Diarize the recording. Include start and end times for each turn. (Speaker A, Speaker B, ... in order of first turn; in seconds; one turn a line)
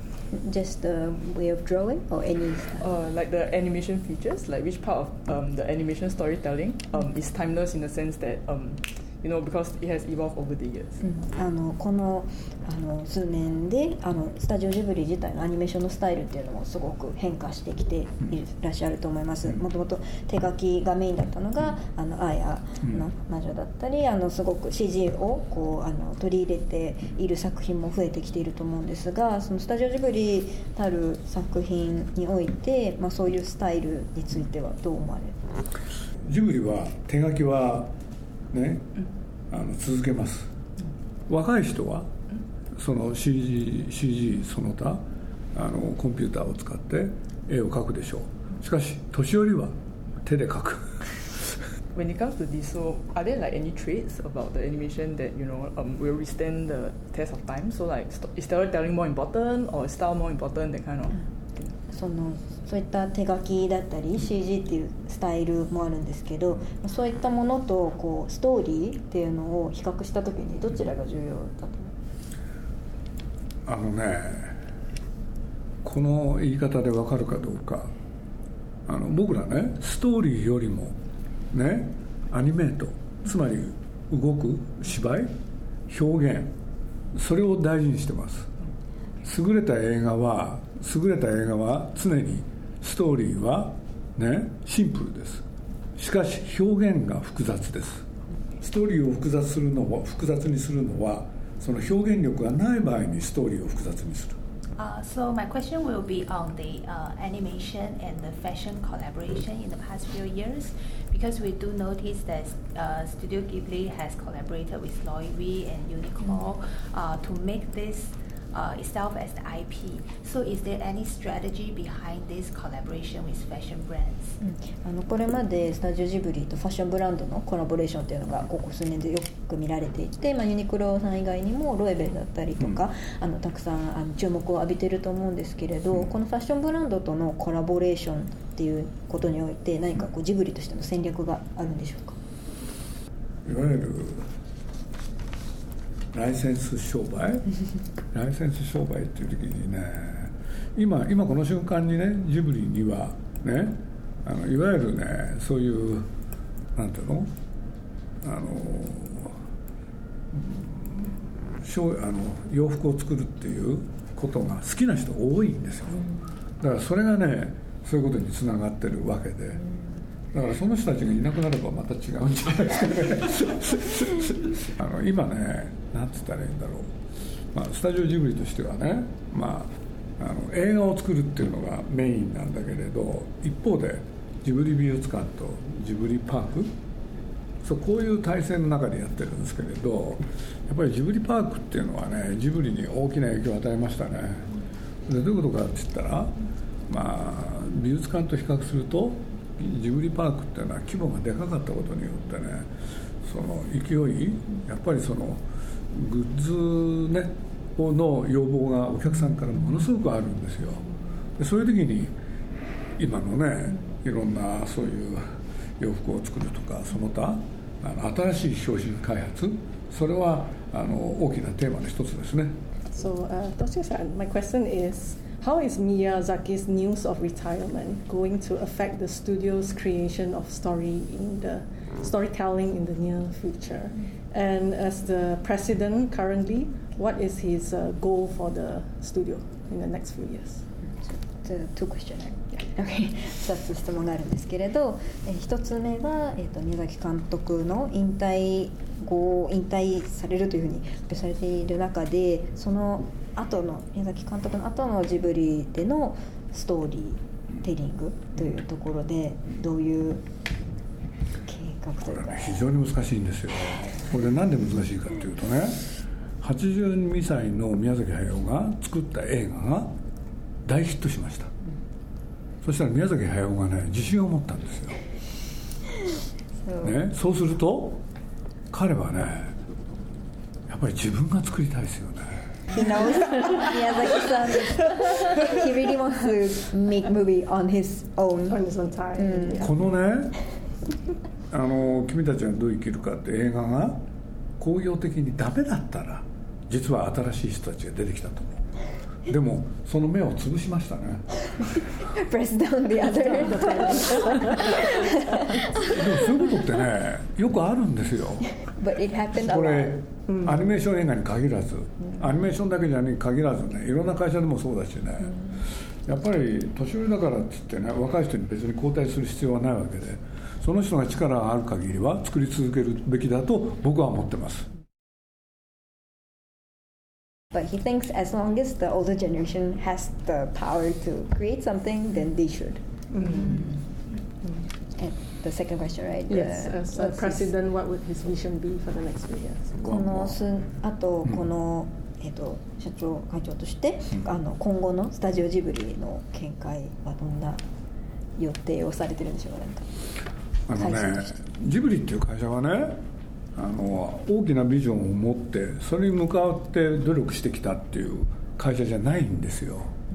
Speaker A: 0.3-2.8
Speaker B: 2.8-11.0
Speaker A: 11.0-35.4
Speaker C: 36.2-37.9
Speaker C: 38.5-39.0
Speaker C: 39.5-40.5
Speaker C: 41.3-42.1
Speaker C: 42.8-45.0
Speaker C: 45.5-51.6
Speaker B: 51.9-61.8
Speaker A: 61.9-71.9
Speaker C: 73.7-74.6
Speaker C: 75.8-77.9
Speaker C: 78.9-81.0
Speaker C: 81.5-85.3
Speaker C: 85.9-86.5
Speaker C: 87.1-88.5
Speaker C: 89.2-95.4
Speaker C: 96.0-98.0
Speaker C: 98.6-104.4
Speaker D: 104.8-124.4
Speaker A: 124.4-142.2
Speaker C: 143.4-144.3
Speaker C: 146.1-147.5
Speaker C: 148.1-156.1
Speaker C: 156.7-157.3
Speaker C: 158.2-159.4
Speaker C: 160.3-166.1
Speaker C: 166.6-169.6
Speaker C: 170.3-176.9
Speaker C: 177.5-186.7
Speaker C: 187.6-194.5
Speaker C: 195.1-196.3
Speaker C: 196.9-202.7
Speaker C: 203.2-210.8
Speaker C: 211.4-212.1
Speaker C: 213.0-215.2
Speaker C: 215.8-222.6
Speaker E: 222.9-240.7
Speaker A: 240.9-260.2
Speaker A: 261.4-262.6
Speaker C: 262.0-265.9
Speaker C: 266.4-269.9
Speaker C: 270.6-271.5
Speaker C: 272.6-275.0
Speaker A: 276.6-276.9
Speaker C: 276.8-278.0
Speaker C: 278.7-279.5
Speaker C: 280.7-282.5
Speaker A: 282.7-288.6
Speaker E: 288.5-289.8
Speaker A: 289.1-289.7
Speaker C: 289.6-290.4
Speaker C: 291.5-294.0
Speaker C: 294.6-298.6
Speaker C: 299.3-301.9
Speaker A: 302.1-305.9
Speaker E: 303.3-304.9
Speaker C: 305.9-308.6
Speaker A: 308.7-310.0
Speaker C: 309.4-315.4
Speaker E: 310.3-310.6
Speaker C: 316.1-324.7
Speaker A: 327.5-332.8
Speaker E: 333.1-333.7
Speaker A: 334.9-337.5
Speaker E: 336.3-339.9
Speaker A: 339.8-347.6
Speaker C: 339.9-340.3
Speaker A: 348.4-349.9
Speaker C: 350.7-353.0
Speaker A: 350.8-351.4
Speaker C: 353.5-359.9